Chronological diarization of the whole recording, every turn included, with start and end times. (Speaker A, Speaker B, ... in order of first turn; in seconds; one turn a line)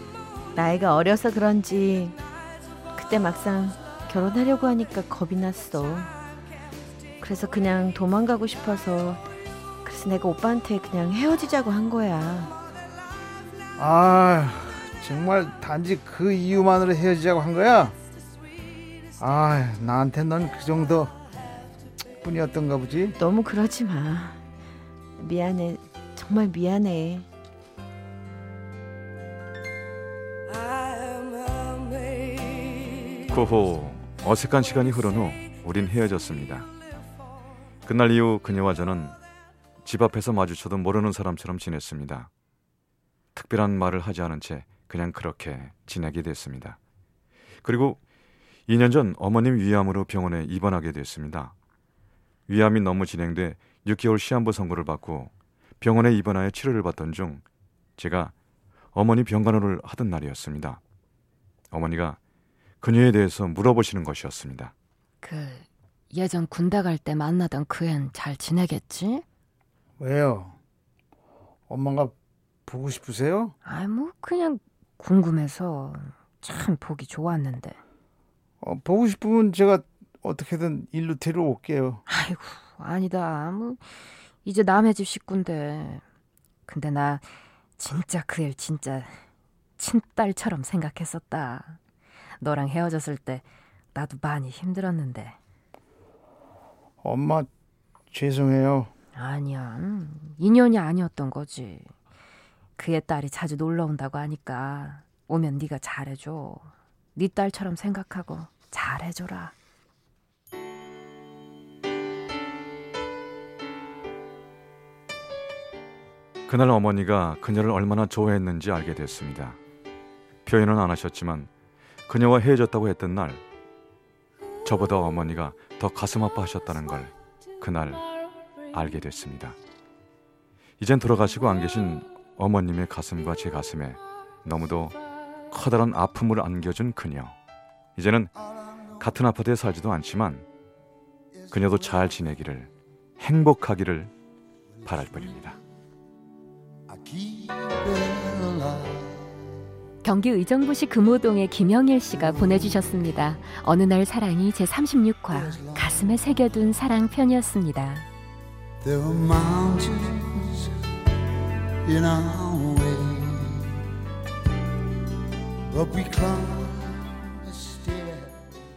Speaker A: 0.5-2.2
Speaker A: 3.0-6.1
Speaker A: 7.2-9.2
Speaker A: 9.8-12.5
Speaker B: 13.8-17.9
Speaker B: 19.2-21.1
Speaker B: 22.2-23.2
Speaker A: 23.2-24.4
Speaker A: 25.2-27.3
Speaker C: 33.2-36.7
Speaker C: 37.9-39.2
Speaker C: 39.8-42.3
Speaker C: 43.4-46.8
Speaker C: 47.6-48.0
Speaker C: 48.7-51.5
Speaker C: 52.5-57.4
Speaker C: 58.0-58.3
Speaker C: 59.0-60.8
Speaker C: 61.7-62.2
Speaker C: 62.8-64.7
Speaker D: 65.2-69.2
Speaker B: 70.0-70.5
Speaker B: 71.7-72.1
Speaker B: 72.7-73.5
Speaker D: 73.6-77.8
Speaker B: 78.6-82.0
Speaker D: 82.1-83.9
Speaker D: 84.4-86.0
Speaker D: 86.7-89.2
Speaker D: 89.8-91.8
Speaker D: 92.4-95.4
Speaker B: 97.0-97.5
Speaker B: 98.1-98.9
Speaker D: 99.1-101.9
Speaker D: 102.8-109.5
Speaker C: 116.5-119.6
Speaker C: 120.5-121.5
Speaker C: 122.1-123.4
Speaker C: 124.6-128.1
Speaker C: 128.7-129.6
Speaker C: 130.8-135.0
Speaker C: 135.5-137.4
Speaker C: 138.0-138.3
Speaker C: 139.0-140.5
Speaker C: 141.5-144.1
Speaker C: 144.8-145.6
Speaker E: 146.9-149.3
Speaker D: 150.0-158.1
Speaker E: 158.8-160.7
Speaker E: 161.8-163.8
Speaker E: 165.7-168.5